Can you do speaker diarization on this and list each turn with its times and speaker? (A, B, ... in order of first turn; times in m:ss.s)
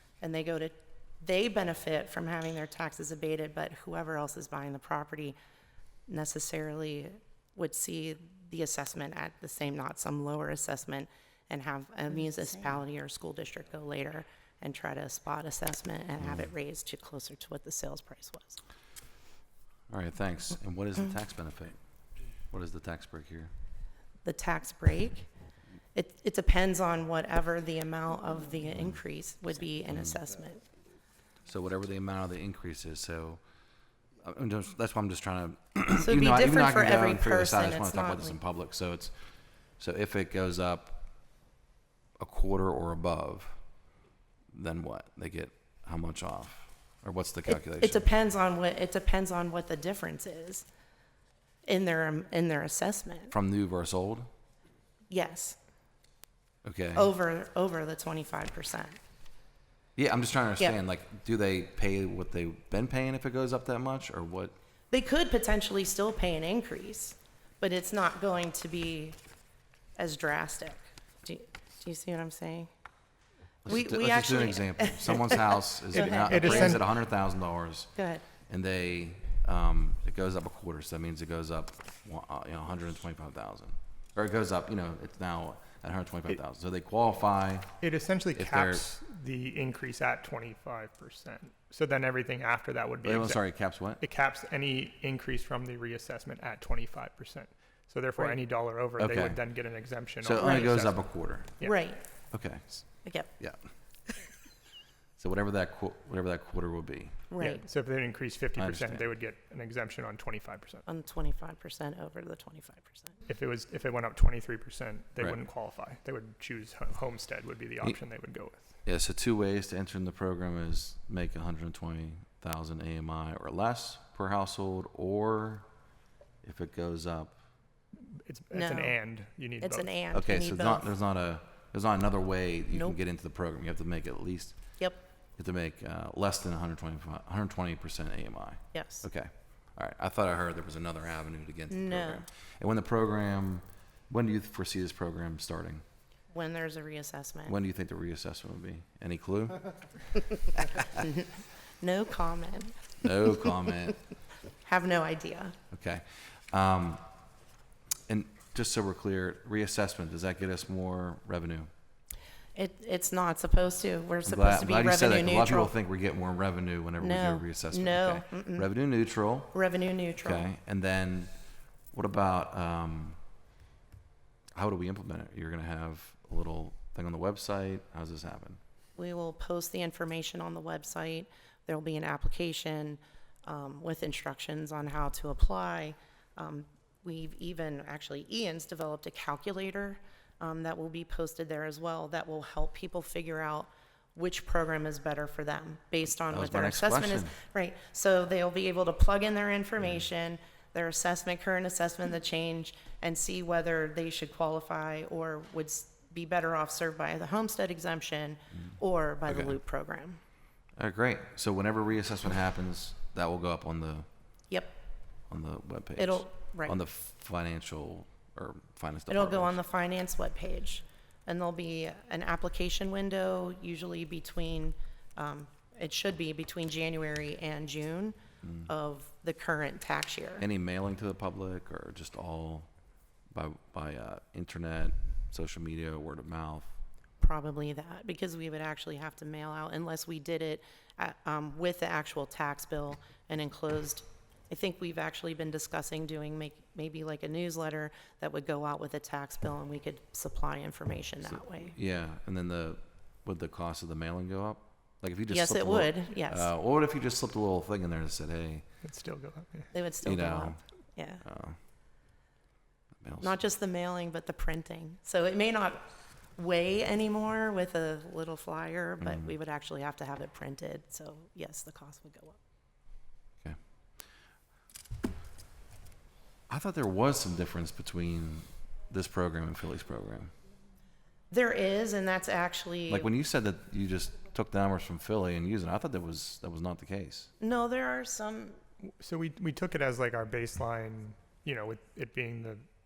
0:00.2-0:05.4 A
0:06.1-0:18.6 A
0:19.9-0:21.8 B
0:22.5-0:23.5 B
0:24.2-0:25.3 A
0:26.0-0:30.6 A
0:29.9-0:30.2 B
0:31.5-0:33.4 B
0:34.2-0:39.1 B
0:36.0-0:38.4 A
0:39.8-0:41.1 B
0:42.2-0:43.6 B
0:44.5-0:48.0 B
0:47.5-0:50.7 A
0:51.6-0:53.3 A
0:53.3-0:54.3 B
0:55.1-0:55.6 A
0:56.6-0:57.1 B
0:57.0-0:59.0 A
1:00.0-1:04.5 B
1:04.9-1:09.2 A
1:10.0-1:12.7 A
1:13.7-1:16.8 A
1:13.7-1:17.9 B
1:15.9-1:16.8 C
1:18.0-1:18.2 A
1:18.5-1:27.8 B
1:27.8-1:33.4 C
1:28.4-1:28.8 B
1:33.0-1:34.0 B
1:34.0-1:41.1 C
1:39.0-1:39.4 B
1:40.2-1:41.5 B
1:40.4-1:40.7 A
1:41.6-1:42.0 A
1:42.3-1:43.6 B
1:43.0-1:43.3 A
1:45.2-1:47.2 B
1:47.3-1:47.6 A
1:47.4-1:50.8 C
1:48.6-1:49.1 B
1:50.9-1:53.1 A
1:53.3-1:58.6 C
1:58.8-2:05.6 B
2:06.4-2:07.4 B
2:08.0-2:09.9 C
2:08.5-2:09.0 A
2:09.6-2:10.9 A
2:10.1-2:14.6 B
2:12.7-2:13.0 A
2:15.4-2:25.8 B
2:18.7-2:19.1 A
2:21.7-2:22.3 A
2:26.3-2:27.6 A
2:27.5-2:29.7 B
2:31.0-2:31.3 A
2:31.8-2:33.1 A
2:33.0-2:34.0 B
2:34.6-2:35.6 A
2:35.7-2:37.0 B
2:38.1-2:41.7 B
2:42.6-2:45.7 A
2:44.2-2:49.6 B
2:47.0-2:48.7 A
2:49.5-2:50.5 A
2:50.2-2:51.3 B
2:51.9-2:53.2 B
2:54.6-2:58.6 B
2:59.0-3:30.2 A
3:16.3-3:17.3 B
3:29.3-3:29.6 B
3:30.8-3:34.1 B
3:34.5-3:34.8 A
3:35.3-3:39.6 B
3:36.0-3:36.8 A
3:39.1-3:50.5 A
3:48.4-3:48.7 B
3:50.4-3:52.7 B
3:53.3-3:56.7 B
3:57.2-4:11.7 A
4:11.3-4:18.6 B
4:15.3-4:16.5 A
4:18.8-4:19.7 C
4:19.7-4:21.2 A
4:20.0-4:20.6 B
4:21.2-4:21.6 B
4:23.0-4:23.4 B
4:23.2-4:32.4 A
4:29.0-4:29.3 B
4:36.5-4:40.3 B
4:41.3-4:43.1 A
4:42.9-4:47.3 B
4:47.4-4:48.6 A
4:49.0-4:52.6 C